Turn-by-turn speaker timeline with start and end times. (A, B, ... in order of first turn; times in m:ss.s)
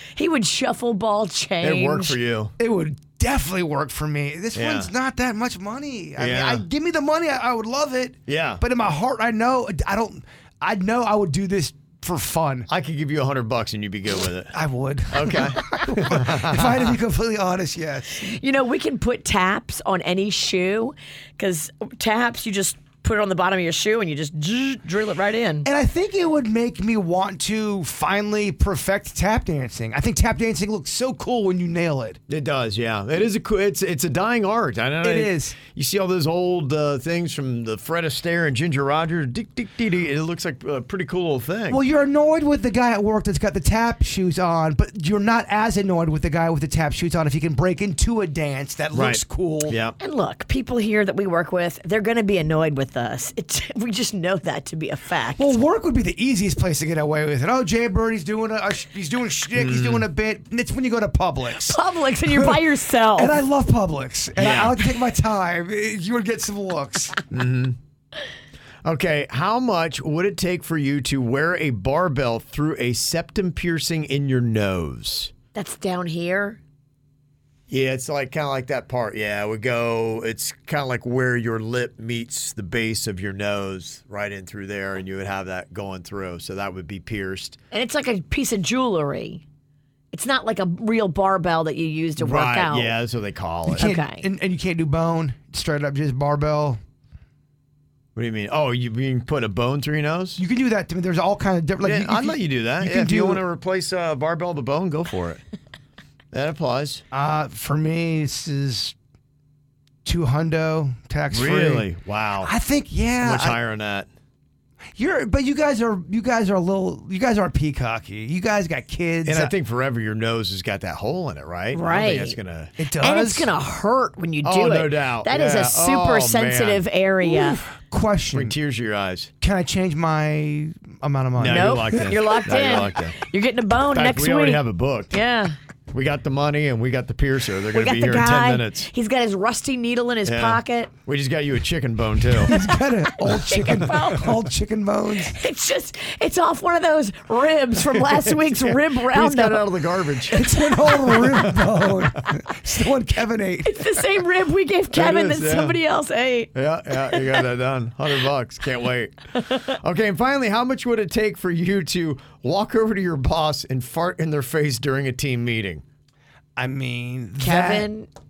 0:00.2-0:02.2 A
0:01.6-0:02.5 B
0:02.6-0:12.7 C
0:04.6-0:04.9 B
0:06.2-0:06.6 B
0:08.3-0:08.6 B
0:12.7-0:14.6 B
0:14.5-0:18.4 C
0:15.1-0:16.8 B
0:18.2-0:25.7 A
0:25.6-0:32.2 C
0:32.3-0:41.8 B
0:35.0-0:35.6 C
0:41.7-0:49.8 C
0:48.9-0:50.0 B
0:50.0-0:55.6 A
0:55.4-1:07.2 C
0:59.6-1:00.1 B
1:01.6-1:03.4 A
1:04.4-1:04.8 B
1:07.3-1:07.8 B
1:08.8-1:15.3 B
1:15.6-1:16.6 A
1:17.7-1:27.6 B
1:27.7-1:29.4 A
1:30.1-1:33.0 A
1:32.2-1:33.9 B
1:33.7-1:36.8 C
1:33.8-1:34.2 A
1:38.2-1:40.4 B
1:40.4-1:43.4 C
1:41.8-1:45.4 B
1:46.3-1:47.0 B
1:47.1-1:49.0 C
1:50.0-1:51.9 C
1:51.3-1:52.5 B
1:52.4-1:53.6 C
1:53.2-1:54.1 B
1:55.0-1:59.5 C
1:59.2-2:02.7 B
2:01.7-2:02.4 A
2:02.8-2:03.5 C
2:03.0-2:07.6 A
2:04.4-2:06.8 B
2:07.2-2:08.6 C
2:08.3-2:09.3 B
2:09.4-2:12.2 C
2:11.4-2:13.2 B
2:11.5-2:15.6 A
2:13.9-2:15.2 B
2:15.9-2:18.9 B
2:17.7-2:20.9 A
2:20.2-2:22.6 B
2:22.4-2:25.4 C
2:23.2-2:24.5 A
2:25.3-2:29.7 A
2:29.0-2:32.0 B
2:30.3-2:34.0 C
2:33.6-2:36.5 A
2:34.9-2:35.8 B
2:36.6-2:45.8 B
2:46.6-2:47.9 C
2:47.4-2:48.1 A